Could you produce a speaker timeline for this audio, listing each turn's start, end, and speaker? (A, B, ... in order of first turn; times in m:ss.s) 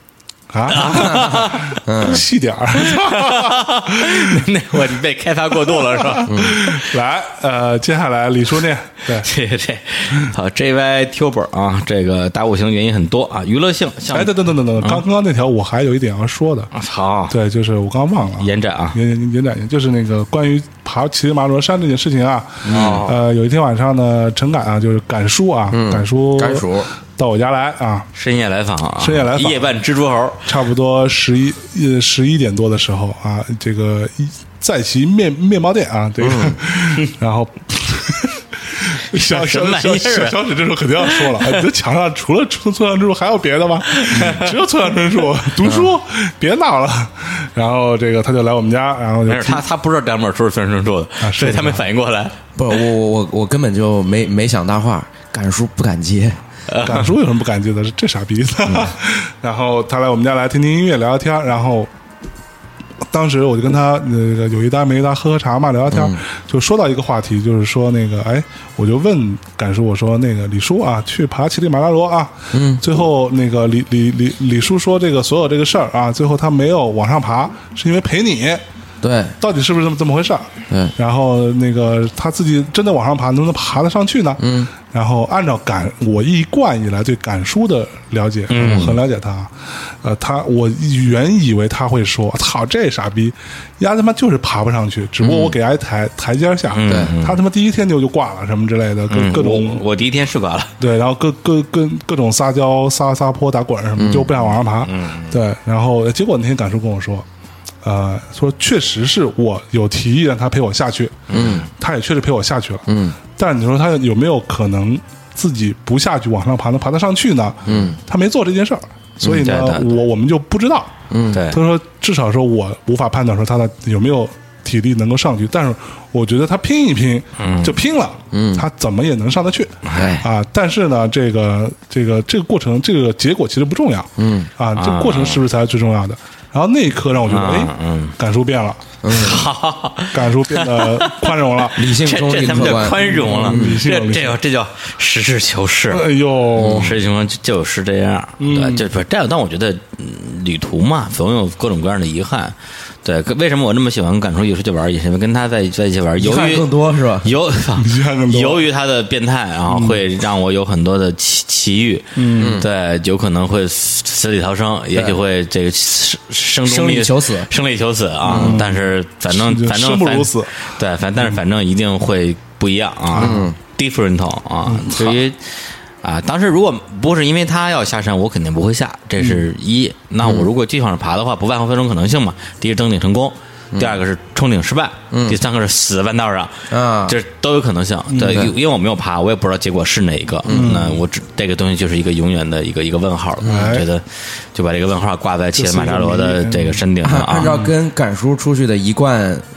0:00.5-0:04.4 A
0:00.7-0:01.8 B
0:00.9-0:02.2 C
0:02.8-0:06.9 B
0:05.6-0:09.3 A
0:06.3-0:06.5 C
0:09.2-0:15.0 B
0:14.1-0:16.7 A
0:16.7-0:17.3 B
0:17.3-0:28.1 A
0:18.4-0:19.0 B
0:22.6-0:23.0 C
0:22.7-0:23.2 B
0:25.7-0:26.9 C
0:28.2-0:30.4 B
0:29.0-0:29.7 A
0:30.4-0:49.6 A
0:36.2-0:36.6 C
0:39.1-0:40.4 B
0:41.0-0:41.6 B
0:43.9-0:44.5 B
0:45.6-0:45.9 C
0:49.3-0:52.4 B
0:51.2-0:51.9 A
0:52.6-0:56.4 C
0:56.7-0:57.1 B
0:56.8-1:01.9 A
1:03.1-1:18.6 A
1:05.9-1:06.2 C
1:12.5-1:12.8 C
1:19.0-1:19.4 C
1:19.4-1:39.8 A
1:24.4-1:24.7 C
1:28.5-1:29.0 B
1:35.2-1:35.6 B
1:36.7-1:37.4 B
1:36.9-1:37.1 C
1:39.1-1:40.7 B
1:40.8-1:47.3 A
1:44.0-1:44.3 C
1:44.8-1:45.4 B
1:47.8-2:19.0 A
1:51.3-1:51.6 B
1:51.3-1:51.7 C
1:52.9-1:53.2 C
1:57.7-1:58.0 C
1:59.2-1:59.9 B
2:01.1-2:01.4 C
2:01.3-2:01.6 B
2:07.4-2:07.8 B
2:08.3-2:08.7 C
2:09.8-2:10.1 B
2:09.9-2:10.2 C
2:14.2-2:14.5 C
2:14.8-2:15.4 B
2:17.3-2:18.1 B
2:19.0-2:19.4 C
2:19.1-2:36.7 B
2:20.1-2:21.9 A
2:21.7-2:23.8 C
2:23.0-2:24.4 A
2:25.9-2:27.0 A
2:28.4-2:28.9 A
2:36.2-2:37.3 C
2:37.2-3:17.5 B
2:37.8-2:38.7 A
2:39.7-2:40.0 A
2:42.2-2:42.6 A
2:42.4-2:42.7 C
2:46.6-2:47.5 C
2:48.3-2:50.6 A
2:48.3-2:48.6 C
2:53.1-2:53.4 A
2:53.2-2:53.6 C
2:54.6-2:55.2 A
3:03.7-3:04.0 C
3:05.1-3:05.4 C
3:06.7-3:07.2 C
3:08.1-3:08.4 A
3:10.4-3:10.7 C
3:10.5-3:11.0 A
3:13.4-3:13.9 A
3:15.6-3:16.8 A
3:17.0-3:19.4 C
3:17.4-3:17.7 A